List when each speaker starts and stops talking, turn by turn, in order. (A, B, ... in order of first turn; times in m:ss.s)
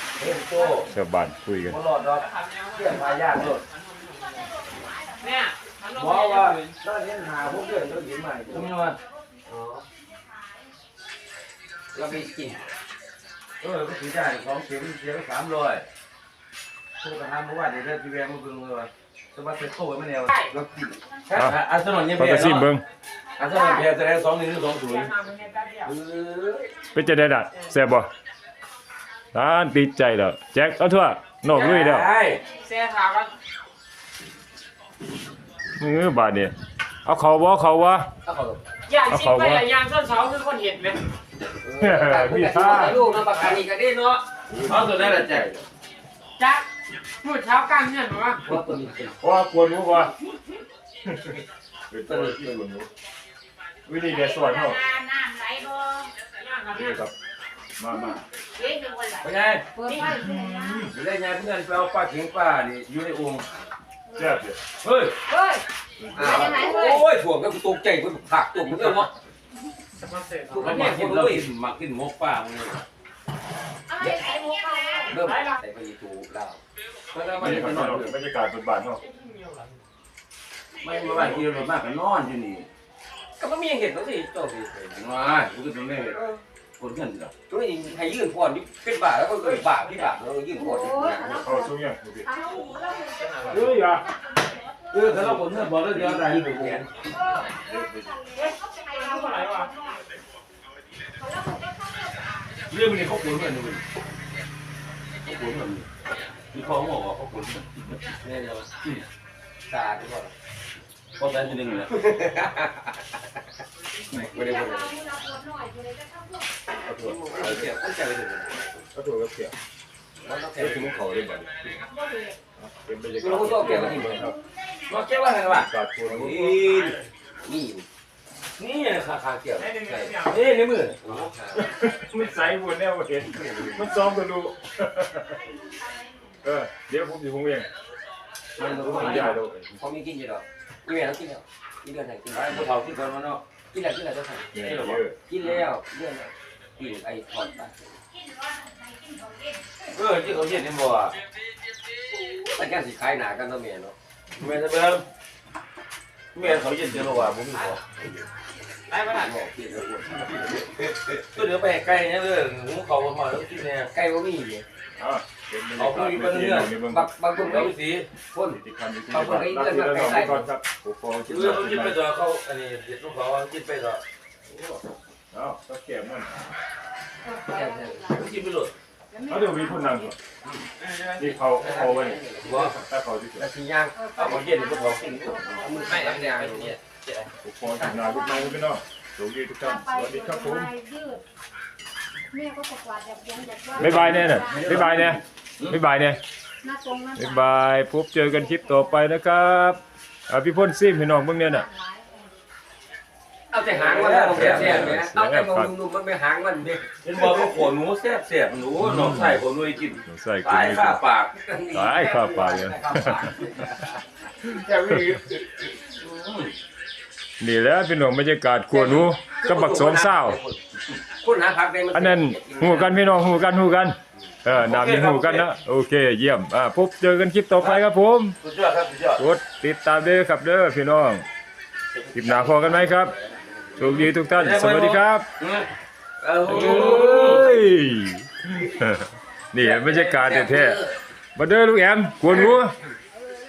0:00.2-0:00.9 A
0:00.8-0:01.8 B
0:01.7-0:03.6 A
0:02.1-0:04.6 C
0:04.4-0:05.2 D
0:05.2-0:06.8 C
0:06.0-0:06.6 A
0:06.7-0:08.7 E
0:08.5-0:09.0 A
0:09.5-0:09.9 E
0:11.9-0:12.7 E
0:13.6-0:15.9 A
0:17.0-0:20.4 A
0:20.5-0:21.5 E
0:21.3-0:22.7 A
0:22.2-0:22.8 B
0:23.4-0:25.1 A
0:23.4-0:23.9 C
0:24.8-0:25.9 C
0:25.8-0:26.7 E
0:26.9-0:28.1 B
0:29.3-0:32.1 B
0:31.5-0:32.4 A
0:32.5-0:33.3 C
0:35.8-0:36.5 B
0:37.0-0:38.1 B
0:38.2-0:38.6 E
0:38.9-0:41.0 C
0:39.0-0:39.6 B
0:41.6-0:44.2 E
0:41.8-0:43.1 B
0:43.2-0:43.6 A
0:44.5-0:45.6 A
0:44.9-0:45.4 E
0:46.4-0:46.6 C
0:47.2-0:48.4 C
0:48.4-0:49.2 E
0:49.2-0:50.1 B
0:51.0-0:52.9 B
0:52.1-0:52.5 E
0:53.9-0:54.8 B
0:54.1-0:56.1 D
0:56.3-0:57.0 C
0:56.7-0:57.1 B
0:57.8-0:58.2 B
0:58.5-1:00.8 D
0:59.2-0:59.7 A
0:59.9-1:00.1 C
0:59.9-1:00.9 B
1:00.9-1:03.5 A
1:04.1-1:04.6 B
1:04.8-1:05.2 A
1:05.3-1:05.6 D
1:06.0-1:06.5 B
1:06.1-1:09.1 E
1:06.2-1:06.6 A
1:06.2-1:07.0 D
1:10.0-1:10.7 C
1:10.5-1:11.5 E
1:10.5-1:12.8 A
1:13.9-1:15.2 D
1:14.0-1:14.3 E
1:14.4-1:15.6 C
1:15.1-1:16.6 E
1:17.1-1:18.2 E
1:17.2-1:17.8 A
1:17.4-1:19.0 B
1:19.0-1:19.8 C
1:20.8-1:22.7 A
1:21.0-1:21.5 B
1:23.4-1:25.0 E
1:24.9-1:26.2 A
1:26.1-1:26.4 E
1:26.8-1:27.3 A
1:27.5-1:31.5 E
1:30.6-1:31.7 D
1:31.4-1:32.3 B
1:32.2-1:34.9 D
1:33.1-1:33.7 C
1:33.5-1:34.1 B
1:34.9-1:36.9 A
1:35.0-1:36.9 E
1:37.2-1:40.0 D
1:37.7-1:38.1 B
1:38.3-1:39.7 C
1:41.2-1:42.5 D
1:42.7-1:43.8 A
1:45.3-1:45.8 A
1:46.5-1:48.0 A
1:48.2-1:48.7 E
1:49.7-1:50.3 E
1:51.2-1:52.0 A
1:51.9-1:53.0 E
1:54.1-1:55.0 E
1:54.3-1:56.5 D
1:56.8-1:57.7 A
1:56.9-1:58.8 E
1:58.9-1:59.5 B
2:00.2-2:01.5 E
2:00.6-2:00.9 B
2:01.9-2:02.3 D
2:02.6-2:04.3 B
2:03.2-2:04.4 E
2:04.9-2:05.7 A
2:05.4-2:06.5 B
2:06.0-2:07.9 E
2:06.2-2:07.0 A
2:08.6-2:11.2 A
2:09.6-2:10.4 C
2:11.0-2:11.8 E
2:11.5-2:15.4 B
2:13.4-2:13.9 E
2:15.9-2:16.1 D
2:16.4-2:17.7 B
2:18.6-2:22.7 E
2:18.6-2:19.5 A
2:18.6-2:19.6 B
2:22.3-2:23.4 A
2:23.7-2:28.0 E
2:24.5-2:25.2 B
2:24.6-2:25.0 A
2:28.2-2:29.6 D
2:29.9-2:31.2 A
2:32.1-2:33.9 E
2:34.4-2:35.1 A
2:36.4-2:38.0 A
2:38.9-2:39.3 C
2:39.0-2:41.0 E
2:41.0-2:43.9 A
2:43.9-2:44.6 E
2:44.9-2:47.1 B
2:45.7-2:46.8 A
2:46.9-2:48.6 E
2:47.3-2:48.1 A
2:48.5-2:52.0 B
2:49.1-2:50.5 E
2:51.3-2:54.0 A
2:55.3-2:56.4 B
2:57.3-2:58.2 D
2:57.4-2:58.1 E
2:58.1-2:58.7 A
2:59.1-3:00.1 D
2:59.3-3:00.2 B
3:00.4-3:01.4 A
3:01.2-3:03.5 B
3:01.5-3:02.7 E
3:02.4-3:02.8 A
3:03.4-3:04.5 E
3:04.0-3:06.0 D
3:04.1-3:06.4 A
3:05.4-3:07.3 E
3:06.0-3:06.6 C
3:07.4-3:10.7 B
3:07.9-3:08.6 D
3:09.6-3:11.2 D
3:12.3-3:14.7 D
3:13.7-3:16.2 B
3:13.8-3:15.8 A
3:16.6-3:17.4 D
3:17.1-3:21.7 B
3:21.6-3:22.3 D
3:23.5-3:27.4 E
3:23.7-3:25.1 A
3:24.3-3:25.7 B
3:27.0-3:31.3 A
3:28.8-3:29.4 B
3:30.0-3:31.0 B
3:31.3-3:35.6 E
3:31.7-3:33.3 B
3:36.0-3:36.6 A
3:37.4-3:40.4 B
3:38.7-3:40.6 E
3:41.2-3:43.0 E
3:41.9-3:48.4 B
3:44.6-3:45.5 A
3:47.6-3:47.8 A
3:48.4-3:49.2 A
3:49.2-3:51.3 B
3:51.9-3:54.2 E
3:52.1-3:53.1 B
3:53.8-3:55.3 B
3:54.3-3:55.7 A
3:56.2-3:57.6 E
3:56.4-3:57.5 A
3:56.4-4:00.8 B
3:59.6-4:01.0 E
4:01.4-4:02.8 B